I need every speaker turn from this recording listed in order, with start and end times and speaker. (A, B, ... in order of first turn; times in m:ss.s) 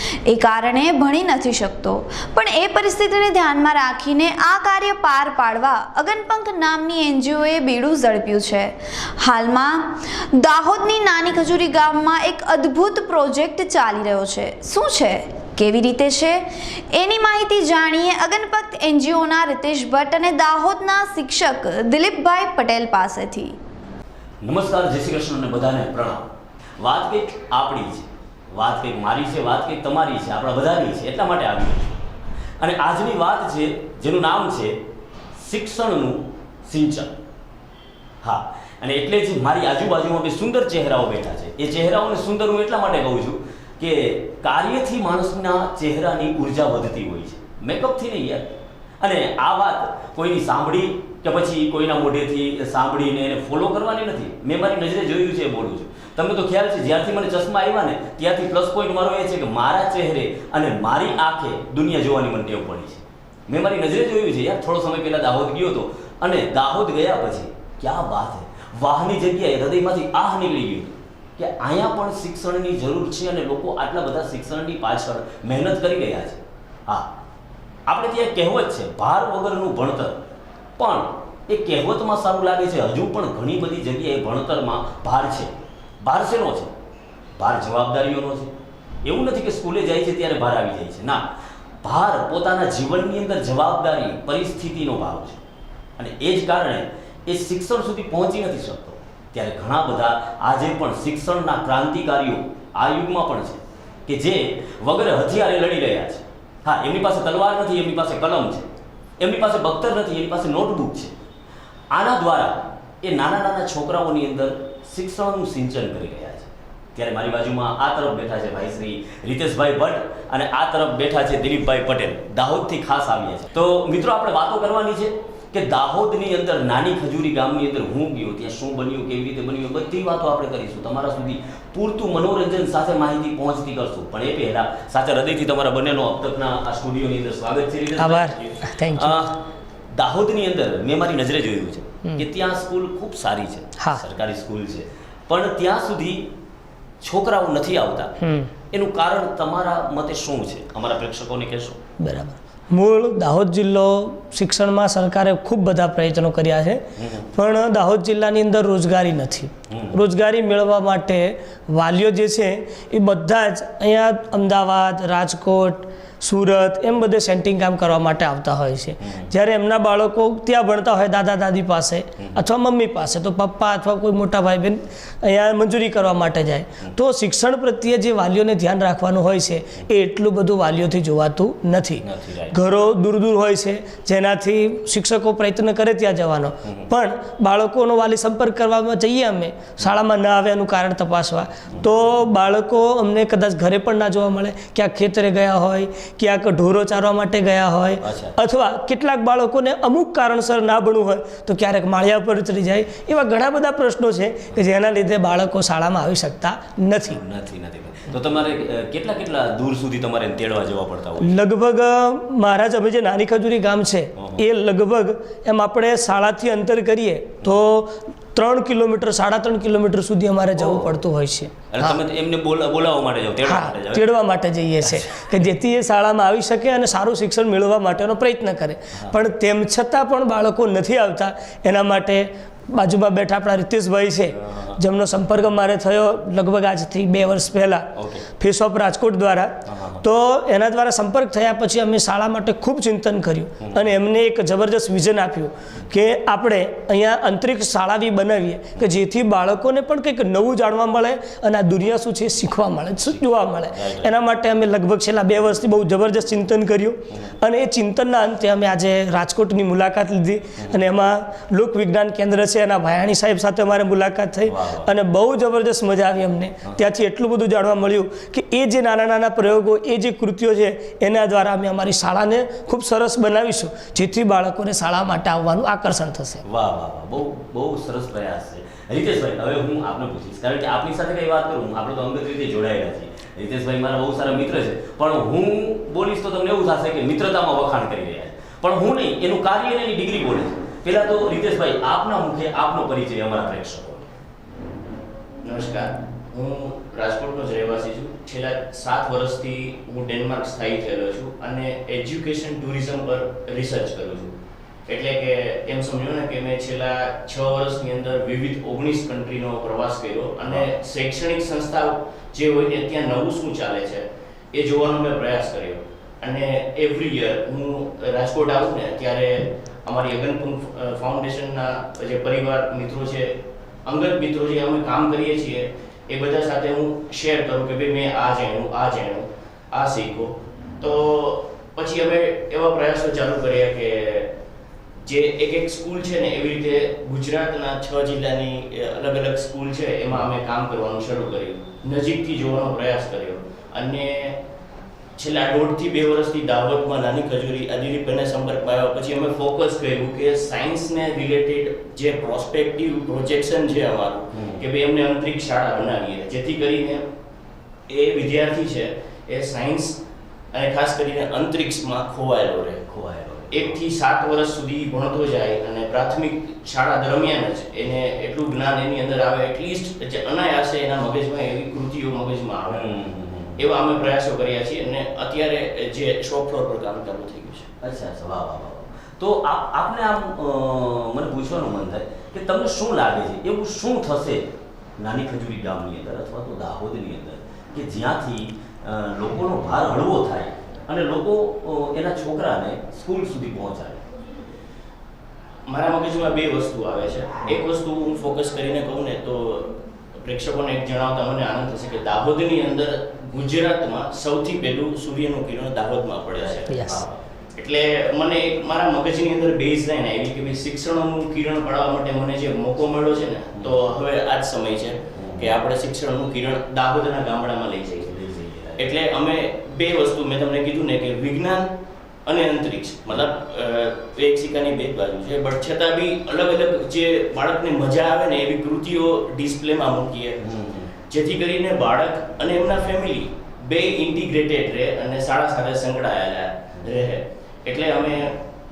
0:00.3-0:23.6 A
0:24.4-0:26.3 B
0:26.8-0:32.0 B
0:32.6-0:34.8 B
0:35.4-0:37.1 B
0:38.2-0:48.5 B
0:49.0-1:17.1 B
1:17.9-1:20.2 B
1:20.8-1:26.7 B
1:27.4-1:28.5 B
1:29.0-1:31.2 B
1:31.8-1:35.4 B
1:36.0-1:48.7 B
1:49.2-1:51.1 B
1:51.9-2:19.4 B
2:18.0-2:19.2 C
2:19.9-2:26.3 B
2:27.0-2:28.1 B
2:28.2-2:28.5 C
2:28.7-2:31.8 B
2:32.0-2:36.8 C
2:37.0-2:37.3 B
2:37.3-3:27.2 C
2:39.7-2:40.0 B
2:49.0-2:49.3 B
3:02.0-3:02.6 B
3:18.0-3:18.4 B
3:27.1-3:31.4 B
3:31.2-3:42.0 C
3:34.2-3:34.4 B
3:40.6-3:41.0 B
3:41.7-3:44.1 B
3:43.4-4:36.4 C
3:44.9-3:45.2 B
3:54.4-3:54.8 B
3:58.0-3:58.3 B
3:59.7-4:00.0 B
4:03.6-4:04.0 B
4:13.0-4:14.1 B
4:24.4-4:24.9 B
4:36.4-4:54.1 B
4:55.4-5:04.3 D
5:04.9-5:34.3 D
5:35.0-5:44.4 D
5:45.2-5:57.0 D
5:54.3-5:54.6 B
5:57.9-6:00.0 D
6:00.5-6:02.8 D
6:02.9-6:03.8 B
6:03.5-6:12.8 D
6:12.7-6:13.7 B
6:13.6-6:17.7 D
6:17.8-6:24.5 B
6:25.0-6:34.0 B
6:35.7-6:39.7 D
6:40.2-6:46.8 D
6:46.3-6:47.2 B
6:46.7-6:47.0 C
6:47.6-6:58.2 D
6:53.6-6:53.9 B
6:55.2-6:55.6 B
6:58.0-6:59.0 B
6:58.8-7:01.7 D
7:02.3-7:10.4 D
7:10.4-7:10.9 B
7:11.1-7:18.4 D